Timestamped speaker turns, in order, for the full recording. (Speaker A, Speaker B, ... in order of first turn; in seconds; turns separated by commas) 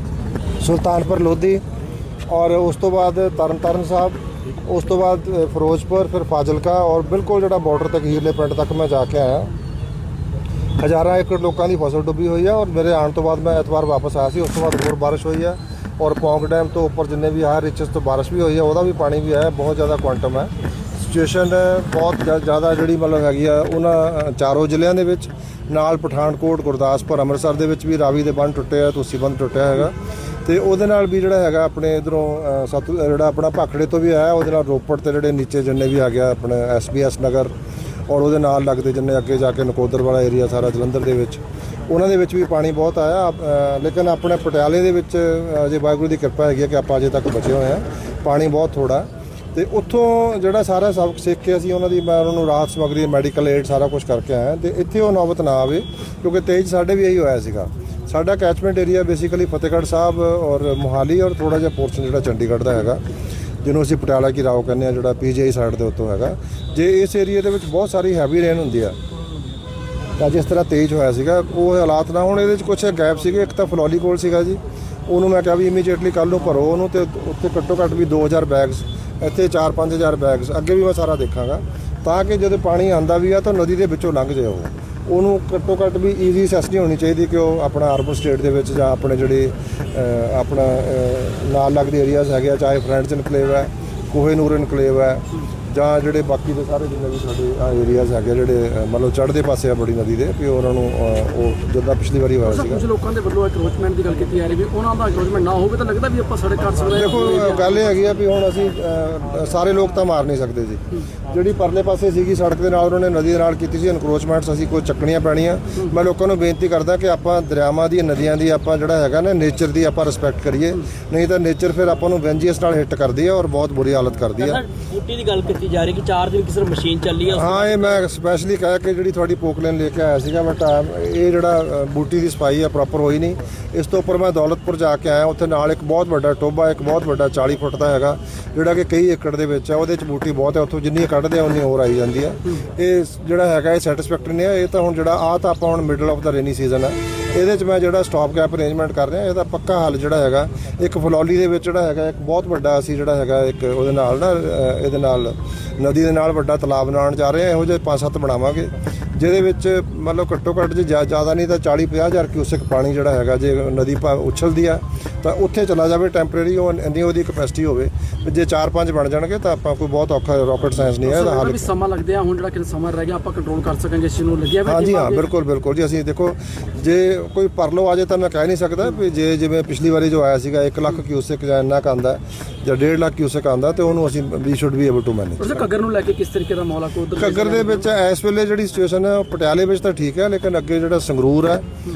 Speaker A: 0.6-1.6, Speaker A: 2.3-9.5, Speaker A: 10.8-37.5, Speaker A: 38.1-63.0, Speaker A: 63.6-69.0, Speaker A: 70.2-102.9, Speaker B: 102.6-107.6, Speaker A: 106.9-124.6, Speaker C: 124.4-128.0, Speaker A: 127.3-171.7, Speaker B: 173.7-175.1, Speaker A: 174.6-185.7, Speaker B: 186.4-187.8, Speaker A: 187.2-191.6